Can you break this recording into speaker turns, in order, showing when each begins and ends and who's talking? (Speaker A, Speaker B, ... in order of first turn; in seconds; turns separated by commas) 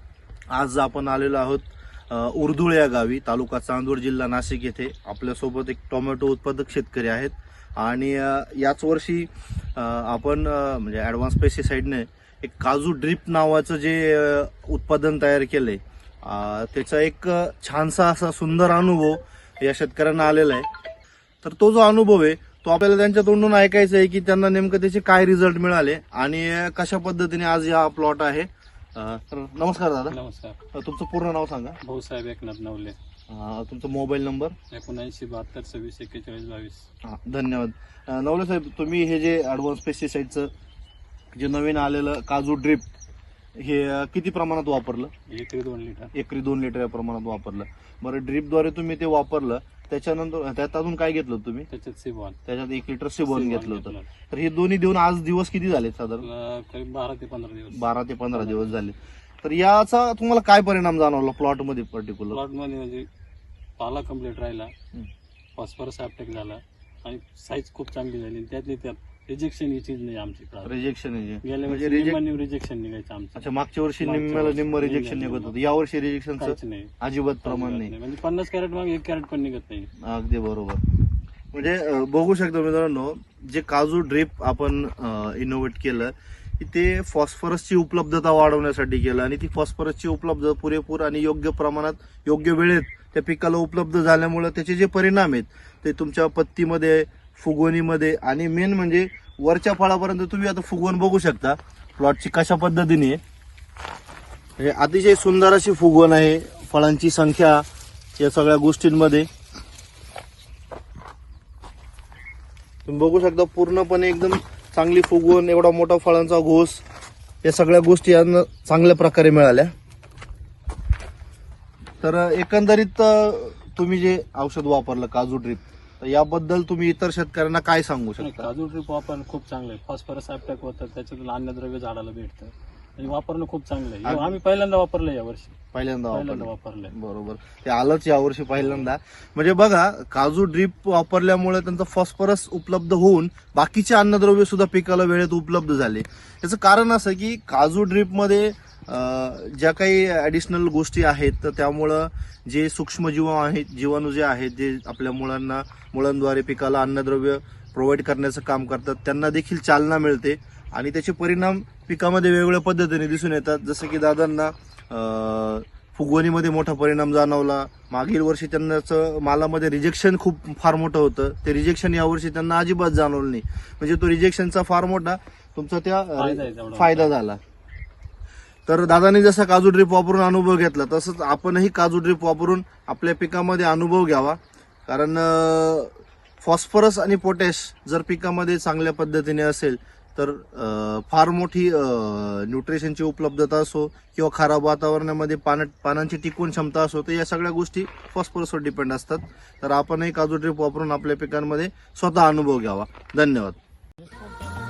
Speaker A: 0.5-20.7, Speaker A: 21.4-30.1, Speaker B: 30.1-30.6, Speaker A: 30.7-31.8, Speaker B: 31.8-33.0, Speaker A: 33.3-34.5, Speaker B: 34.7-36.9, Speaker A: 37.0-40.5, Speaker A: 41.4-42.9, Speaker A: 43.5-45.1, Speaker B: 45.3-46.1, Speaker A: 46.1-51.7, Speaker B: 51.7-52.4, Speaker A: 52.5-56.3, Speaker B: 53.2-54.1, Speaker B: 56.2-58.7, Speaker A: 57.7-62.4, Speaker B: 62.3-63.1, Speaker B: 63.8-64.7, Speaker B: 65.5-70.8, Speaker A: 70.6-72.2, Speaker B: 71.4-75.5, Speaker A: 73.3-77.9, Speaker B: 76.4-76.9, Speaker B: 77.4-79.9, Speaker A: 80.0-80.8, Speaker A: 81.5-103.2, Speaker A: 104.6-107.7, Speaker A: 108.2-109.3, Speaker A: 112.8-116.8, Speaker A: 117.4-119.7, Speaker A: 122.0-128.5, Speaker B: 128.2-135.6, Speaker A: 134.0-134.3, Speaker A: 135.7-177.4, Speaker B: 136.1-136.9, Speaker B: 138.6-138.9, Speaker B: 176.2-177.1, Speaker A: 178.7-203.6